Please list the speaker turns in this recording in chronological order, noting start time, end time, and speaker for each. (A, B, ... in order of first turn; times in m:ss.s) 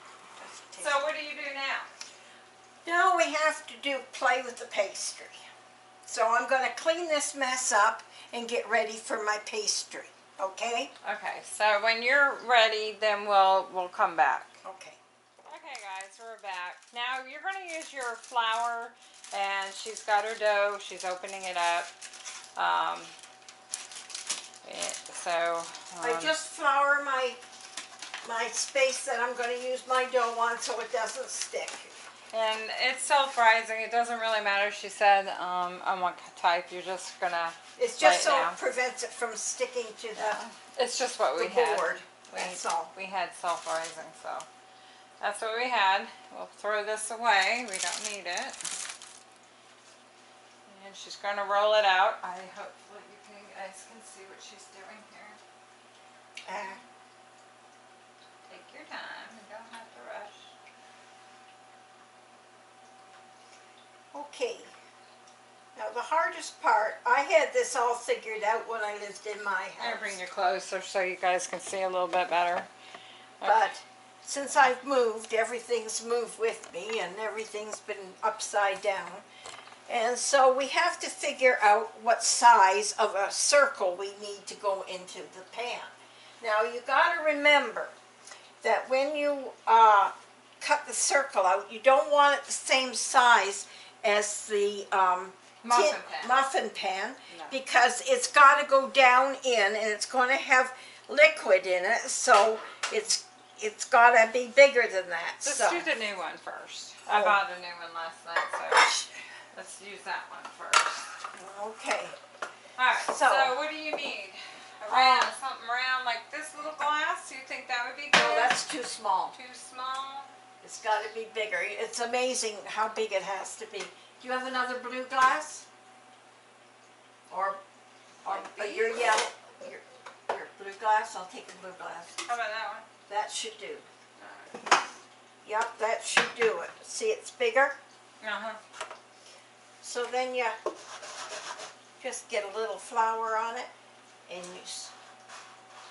0:00.4-0:01.0 A
0:00.8-0:01.9 B
0:02.8-0:05.4 A
0:06.0-0:10.9 A
0:11.0-0:14.6 B
0:14.6-0:15.0 A
0:15.4-0:21.9 B
0:22.6-0:23.1 B
0:24.6-0:26.3 B
0:26.0-0:27.4 A
0:28.2-0:31.9 A
0:32.3-0:38.6 B
0:37.8-0:40.4 A
0:40.2-0:44.4 B
0:41.4-0:42.9 A
0:45.2-0:48.6 B
0:50.7-0:55.4 B
0:56.4-0:56.8 A
0:58.5-1:00.5 B
1:04.1-1:04.7 A
1:05.7-1:10.2 A
1:09.8-1:12.7 B
1:13.4-1:13.7 B
1:13.4-1:19.2 A
1:19.9-1:27.9 A
1:28.6-1:45.9 A
1:35.6-1:36.3 B
1:37.3-1:37.6 B
1:45.4-1:49.0 B
1:47.1-1:47.4 A
1:49.5-1:51.1 B
1:51.3-1:52.2 A
1:52.8-1:58.6 B
1:53.0-1:53.6 A
1:54.9-1:55.3 A
1:58.1-1:59.3 A
1:59.3-2:00.3 B
2:00.6-2:05.6 A
2:07.3-2:07.6 A
2:08.2-2:12.2 A
2:08.2-2:09.1 B
2:12.2-2:12.8 B
2:13.1-2:13.8 A
2:14.2-2:14.7 B
2:15.4-2:17.8 A
2:18.2-2:18.6 B
2:19.8-2:20.6 A
2:22.0-2:23.7 A
2:24.3-2:24.9 A